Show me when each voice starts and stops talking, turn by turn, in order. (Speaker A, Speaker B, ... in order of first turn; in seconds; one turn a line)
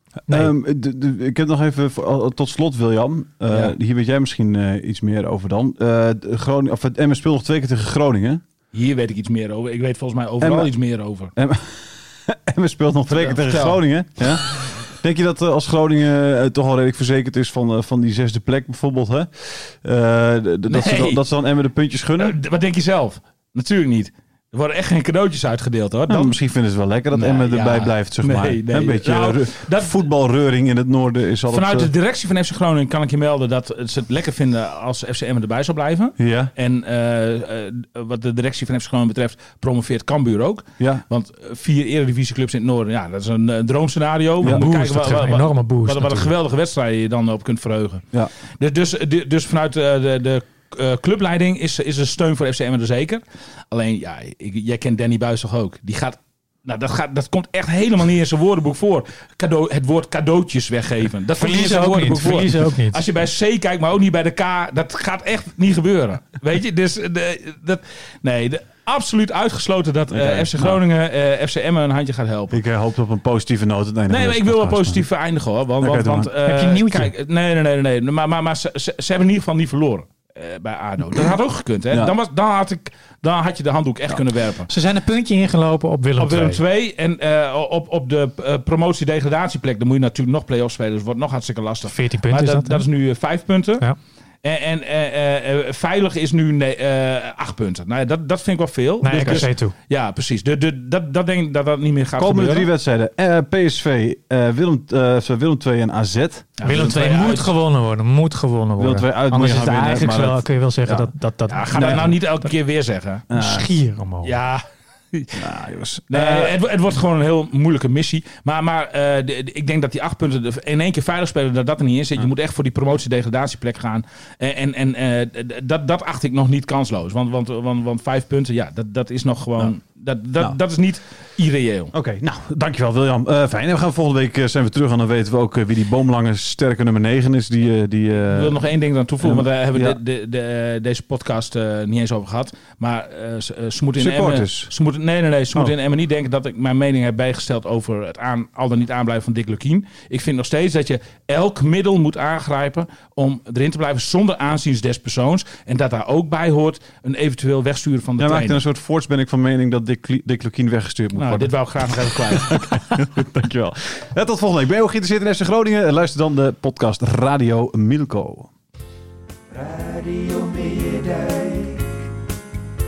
Speaker A: 0.3-8.4
Speaker B: 3.5-3.7
Speaker B: 8.7-11.3
Speaker A: 10.4-10.7
Speaker A: 11.3-22.4
Speaker B: 13.2-13.8
Speaker B: 20.7-21.2
Speaker B: 22.2-26.4
Speaker A: 26.1-31.9
Speaker B: 27.1-29.9
Speaker B: 31.5-48.0
Speaker A: 36.2-36.5
Speaker A: 40.8-41.0
Speaker C: 44.4-46.3
Speaker B: 48.6-72.6
Speaker C: 61.4-63.0
Speaker A: 70.1-70.8
Speaker A: 72.5-75.0
Speaker B: 74.1-84.7
Speaker A: 75.8-76.3
Speaker C: 76.4-77.1
Speaker C: 84.7-86.6
Speaker B: 86.2-93.8
Speaker C: 91.9-92.8
Speaker B: 94.4-102.7
Speaker C: 99.0-99.7
Speaker A: 99.1-99.4
Speaker A: 102.2-106.5
Speaker B: 106.6-107.5
Speaker C: 106.6-112.2
Speaker A: 108.8-111.1
Speaker B: 111.5-113.3
Speaker A: 111.7-112.1
Speaker A: 113.3-113.7
Speaker C: 113.3-114.3
Speaker B: 114.2-115.4
Speaker A: 115.3-116.5
Speaker B: 116.1-131.9
Speaker A: 131.9-138.6
Speaker B: 138.3-158.6
Speaker A: 139.2-140.0
Speaker A: 144.0-144.7
Speaker A: 158.2-168.5
Speaker B: 161.2-162.8
Speaker D: 169.5-171.8